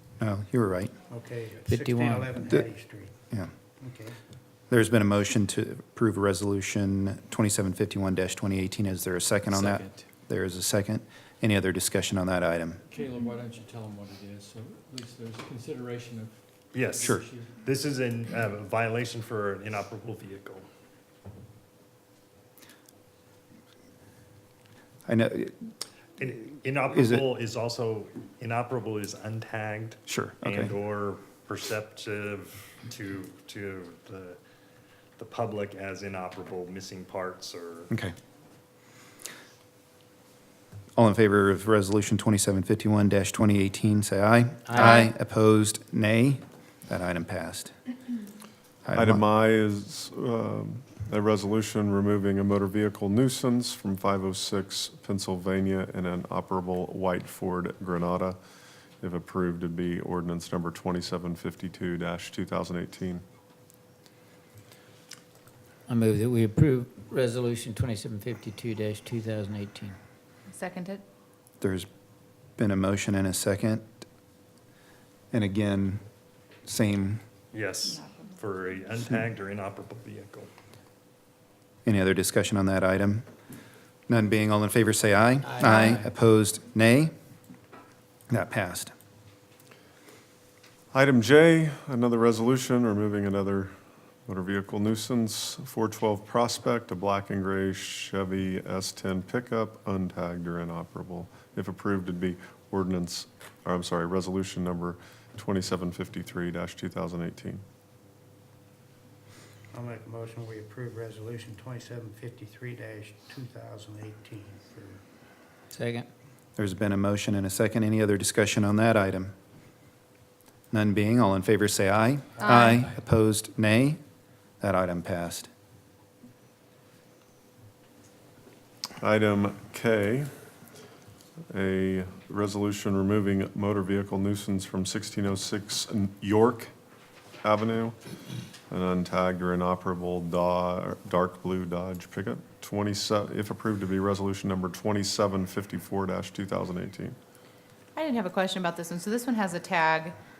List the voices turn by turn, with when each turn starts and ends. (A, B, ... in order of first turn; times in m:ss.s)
0:00.2-0:00.9 A
0:01.1-0:03.1 B
0:01.6-0:02.3 C
0:03.8-0:04.2 B
0:04.7-0:12.8 A
0:12.9-0:17.6 D
0:16.7-0:20.6 E
0:25.0-0:25.7 A
0:26.2-0:34.4 E
0:26.9-0:27.2 A
0:30.1-0:30.7 A
0:35.2-0:37.9 E
0:37.9-0:38.1 A
0:41.0-0:47.7 A
0:44.6-0:45.1 C
0:48.8-0:49.2 A
0:48.9-0:58.4 F
0:59.0-1:03.2 F
1:05.9-1:10.0 C
1:10.5-1:11.0 G
1:11.6-1:11.9 A
1:12.6-1:13.9 A
1:15.3-1:16.0 A
1:16.6-1:17.2 A
1:17.5-1:20.5 E
1:17.9-1:18.3 G
1:21.8-1:23.2 A
1:24.1-1:27.1 A
1:25.6-1:25.9 C
1:25.6-1:26.0 G
1:28.3-1:28.9 A
1:30.9-1:33.7 F
1:34.2-1:47.6 F
1:49.7-1:55.0 B
1:55.7-1:56.1 C
1:56.6-1:59.3 A
2:00.7-2:04.0 A
2:02.4-2:02.9 G
2:04.6-2:05.5 A
2:09.0-2:10.3 F
2:11.5-2:16.7 F
2:17.4-2:18.0 F
2:18.7-2:27.2 F
2:27.9-2:30.2 G